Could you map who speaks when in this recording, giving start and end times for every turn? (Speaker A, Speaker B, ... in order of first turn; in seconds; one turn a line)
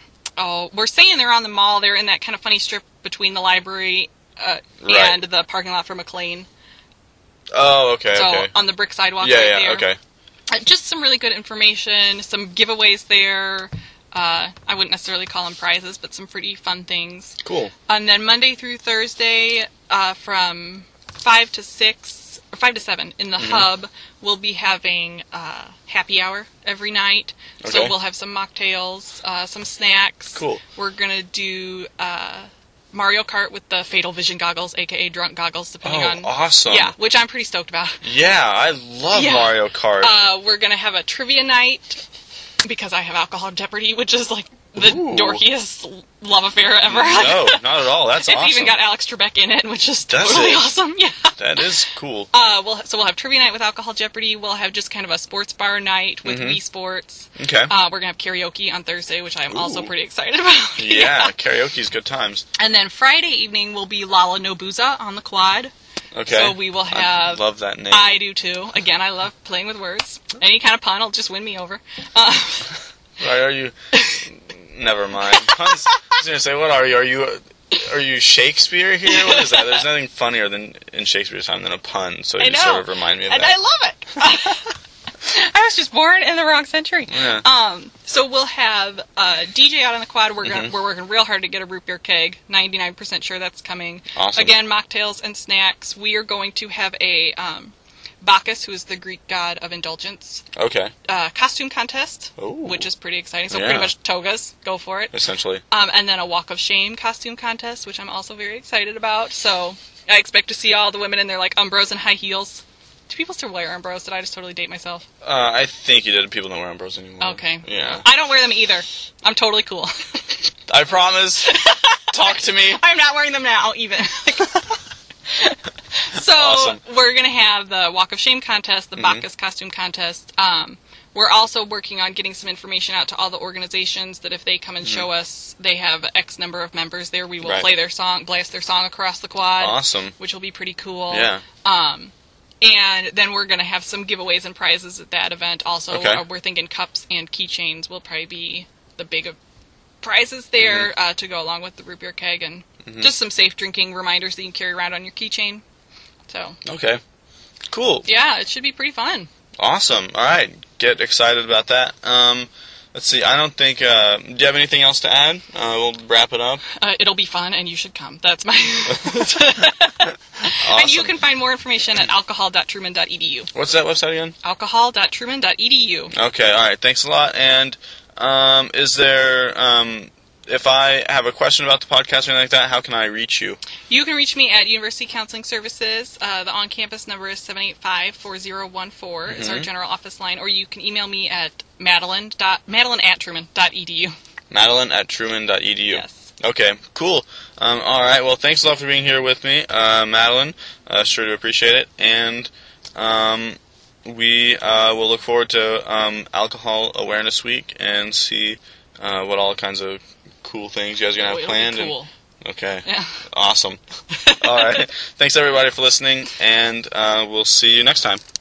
Speaker A: 0.4-6.5
Speaker B: 4.8-5.2
Speaker B: 7.5-8.5
Speaker A: 8.1-9.9
Speaker B: 9.2-10.0
Speaker A: 10.5-38.0
Speaker B: 17.4-17.7
Speaker B: 23.4-23.6
Speaker B: 27.6-27.9
Speaker B: 30.3-30.6
Speaker B: 35.8-36.9
Speaker B: 38.0-40.1
Speaker A: 39.1-42.0
Speaker A: 42.6-47.6
Speaker B: 44.8-45.4
Speaker B: 46.9-48.8
Speaker A: 48.1-51.7
Speaker B: 50.1-50.7
Speaker B: 51.4-52.3
Speaker A: 52.3-61.3
Speaker B: 56.2-56.6
Speaker B: 57.4-57.7
Speaker B: 59.5-59.9
Speaker B: 60.8-62.4
Speaker A: 62.5-65.7
Speaker B: 66.1-68.2
Speaker A: 66.3-72.8
Speaker B: 73.2-83.5
Speaker A: 74.0-74.2
Speaker A: 75.3-76.0
Speaker A: 79.1-79.8
Speaker A: 82.4-100.4
Speaker B: 87.1-87.4
Speaker B: 90.4-90.7
Speaker B: 94.1-94.6
Speaker B: 100.5-100.9
Speaker A: 101.1-105.1
Speaker B: 102.4-102.8
Speaker B: 103.5-103.9
Speaker B: 105.1-105.6
Speaker A: 105.7-115.0
Speaker B: 115.2-118.0
Speaker A: 117.2-120.4
Speaker B: 120.7-121.6
Speaker A: 121.4-149.4
Speaker B: 122.1-122.8
Speaker B: 126.3-126.8
Speaker B: 129.0-129.2
Speaker B: 137.4-137.7
Speaker B: 139.6-140.1
Speaker B: 141.1-141.4
Speaker B: 145.9-146.2
Speaker A: 150.0-155.6
Speaker B: 150.6-150.9
Speaker B: 152.8-153.1
Speaker A: 156.3-156.6
Speaker B: 156.6-157.0
Speaker B: 157.7-158.1
Speaker A: 158.1-159.3
Speaker B: 159.6-166.6
Speaker A: 166.8-173.5
Speaker B: 170.6-171.2
Speaker B: 173.5-174.3
Speaker A: 174.4-176.1
Speaker B: 176.1-183.6
Speaker A: 183.9-194.1
Speaker B: 189.3-189.7
Speaker B: 194.5-213.8
Speaker A: 195.9-196.3
Speaker A: 211.2-212.1
Speaker A: 212.8-213.2
Speaker A: 214.1-214.8
Speaker B: 214.4-218.2